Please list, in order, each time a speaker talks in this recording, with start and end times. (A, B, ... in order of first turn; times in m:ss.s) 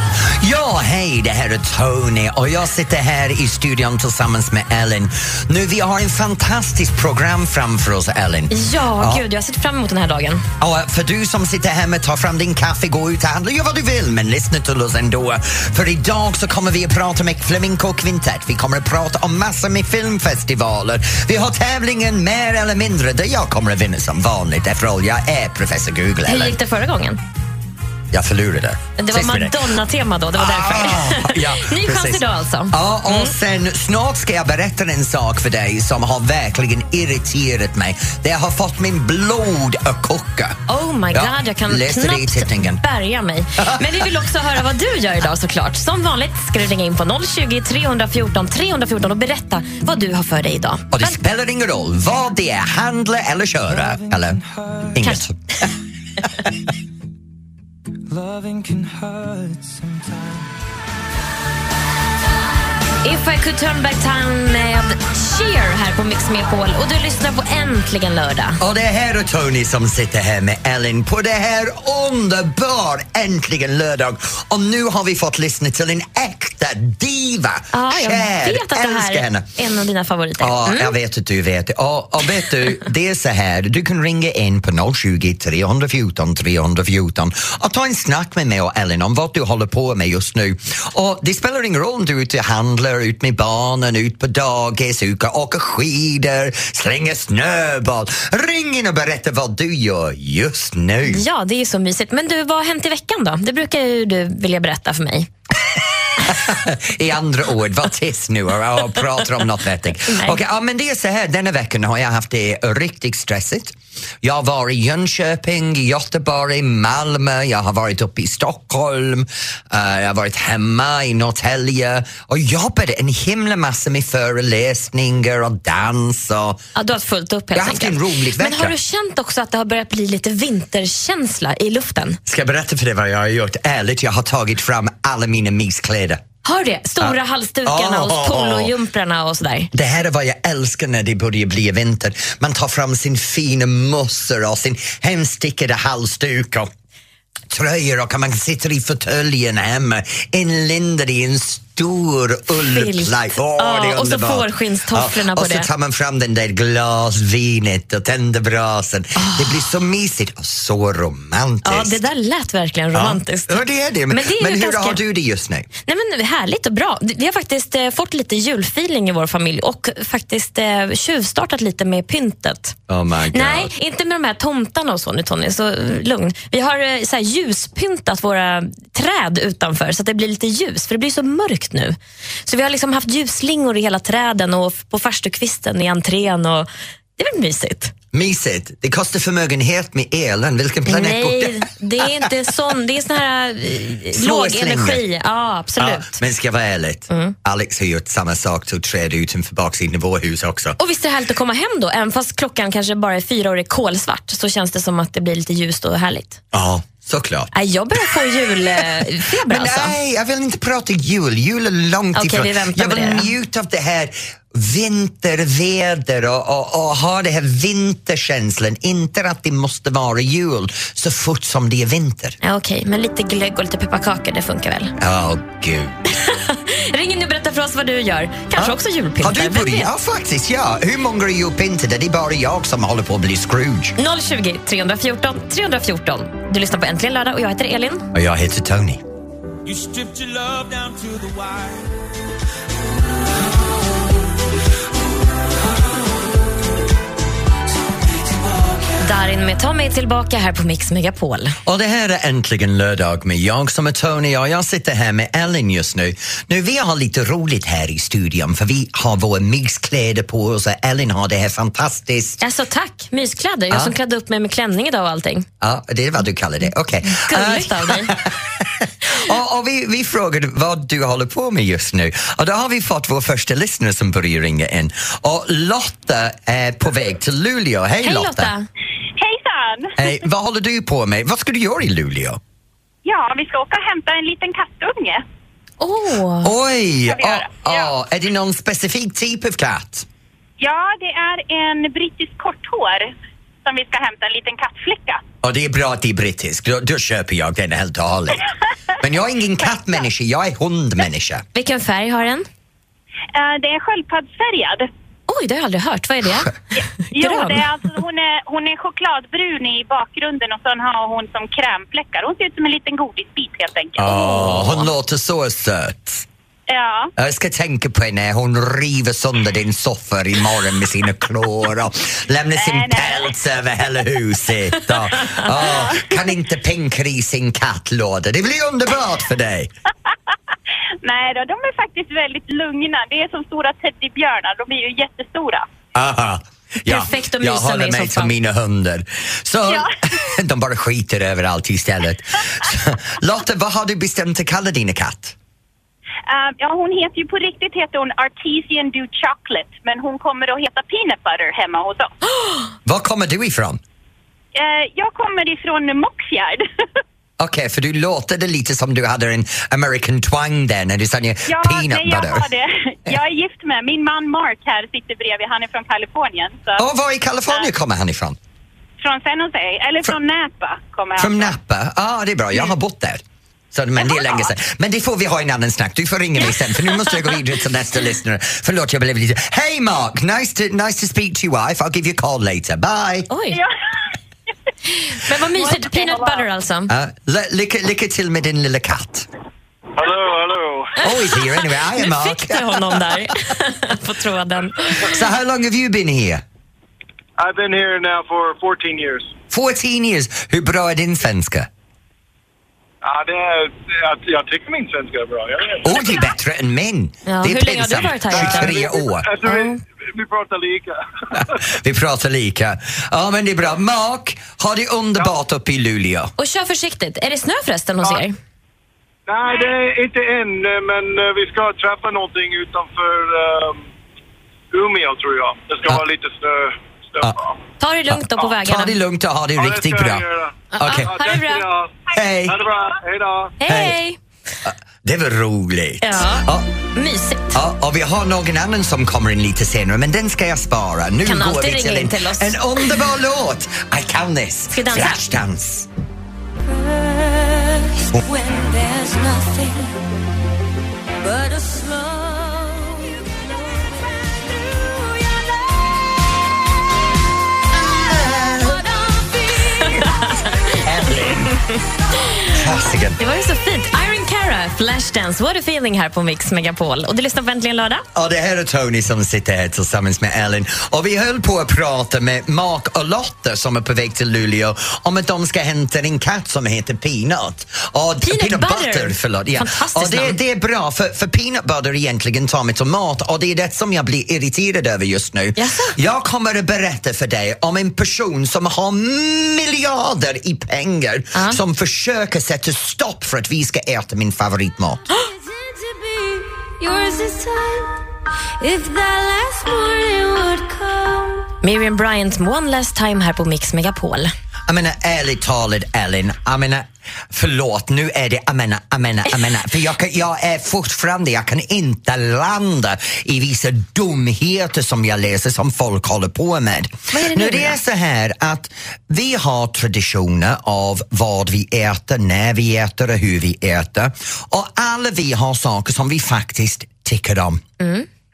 0:00.2-0:09.2 A
0:08.5-0:10.4 B
0:10.6-0:26.6 A
0:26.3-0:27.2 B
0:28.1-0:29.6 A
0:29.0-0:33.3 B
0:30.4-0:40.6 A
0:40.7-0:51.1 B
0:41.1-0:42.8 A
0:43.6-0:44.0 A
0:50.9-0:54.4 A
0:54.9-0:55.4 A
0:58.4-0:59.6 C
1:03.0-1:08.6 B
1:08.6-1:19.5 A
1:17.7-1:20.9 B
1:20.4-1:41.2 A
1:41.0-1:45.3 B
1:46.2-2:06.6 A
1:50.1-1:50.4 B
2:06.8-2:12.2 B
2:07.5-2:08.7 A
2:12.2-2:16.2 A
2:16.4-2:19.7 B
2:17.0-2:18.7 A
2:19.7-2:26.7 A
2:27.5-2:42.0 A
2:32.6-2:35.7 B
2:39.2-2:39.6 B
2:41.6-2:45.0 B
2:42.9-2:45.7 A
2:45.8-2:52.8 B
2:52.9-2:53.7 A
2:53.3-3:07.9 B
3:08.1-3:12.2 A
3:10.9-3:16.2 B
3:14.1-3:15.0 A
3:15.8-3:20.8 A
3:20.8-3:26.4 B
3:26.5-3:27.5 A
3:27.5-3:29.9 B
3:29.4-3:42.4 A
3:32.1-3:33.3 B
3:42.4-3:44.9 B
3:45.0-3:46.0 A
3:46.2-3:49.9 B
3:48.5-3:53.9 A
3:54.0-3:58.1 B
3:58.1-3:59.0 A
3:59.6-4:01.8 C
4:09.0-4:11.6 B
4:11.6-4:22.4 A
4:22.4-4:25.5 B
4:25.6-4:38.5 A
4:27.1-4:28.1 B
4:38.0-4:38.6 B
4:39.2-4:39.9 D
4:40.0-4:42.4 A
4:43.0-4:45.2 D
4:45.8-4:46.5 B
4:46.4-4:50.0 A
4:47.1-4:47.9 D
4:50.6-4:53.1 D
4:53.6-4:55.2 D
4:55.4-4:58.5 A
4:59.0-5:01.4 A
5:01.5-5:02.4 B
5:03.3-5:04.9 D
5:05.3-5:06.5 B
5:06.8-5:14.1 D
5:07.1-5:07.6 B
5:14.0-5:16.2 A
5:14.0-5:14.9 B
5:16.7-5:17.1 D
5:17.2-5:29.7 A
5:22.6-5:23.4 D
5:25.5-5:26.2 D
5:31.0-5:35.6 D
5:35.9-5:45.4 A
5:36.9-5:38.3 B
5:39.7-5:39.9 D
5:46.3-5:52.2 D
5:52.8-5:53.8 A
5:54.5-5:56.7 D
5:57.4-6:02.4 A
6:01.5-6:06.8 D
6:06.8-6:08.4 A
6:09.0-6:11.5 D
6:11.2-6:23.3 A
6:23.3-6:23.6 B
6:25.0-6:26.9 B
6:26.9-6:29.3 A
6:30.0-6:31.0 E
6:31.0-6:33.3 A
6:31.2-6:35.2 B
6:35.1-6:36.4 A
6:37.4-6:39.3 E
6:39.5-6:41.7 A
6:43.0-6:46.0 E
6:45.8-6:49.2 A
6:47.3-6:48.7 B
6:48.3-6:51.5 E
6:49.4-6:49.8 B
6:51.4-6:56.3 A
6:56.4-6:58.3 B
6:59.3-7:03.8 E
7:04.7-7:07.5 E
7:07.8-7:09.0 B
7:08.1-7:10.3 A
7:09.6-7:13.6 E
7:10.7-7:11.7 B
7:10.8-7:11.1 A
7:12.1-7:12.6 A
7:13.6-7:14.2 B
7:13.7-7:14.0 A
7:14.6-7:16.7 A
7:16.0-7:17.6 B
7:17.5-7:25.9 A
7:21.2-7:22.9 B
7:24.7-7:25.2 B
7:28.5-7:29.7 C
7:31.5-7:32.4 C
7:37.8-7:38.9 A
7:39.8-7:40.6 B
7:40.6-7:41.5 A
7:42.5-7:43.2 A
7:43.2-7:48.0 B
7:48.1-8:15.0 A
7:58.2-8:00.4 B
8:05.6-8:06.0 B
8:11.3-8:11.6 B
8:16.8-8:17.7 C
8:18.9-8:21.3 C
8:21.6-8:24.3 B
8:24.7-8:47.6 A
8:37.1-8:37.8 B
8:47.8-8:48.1 B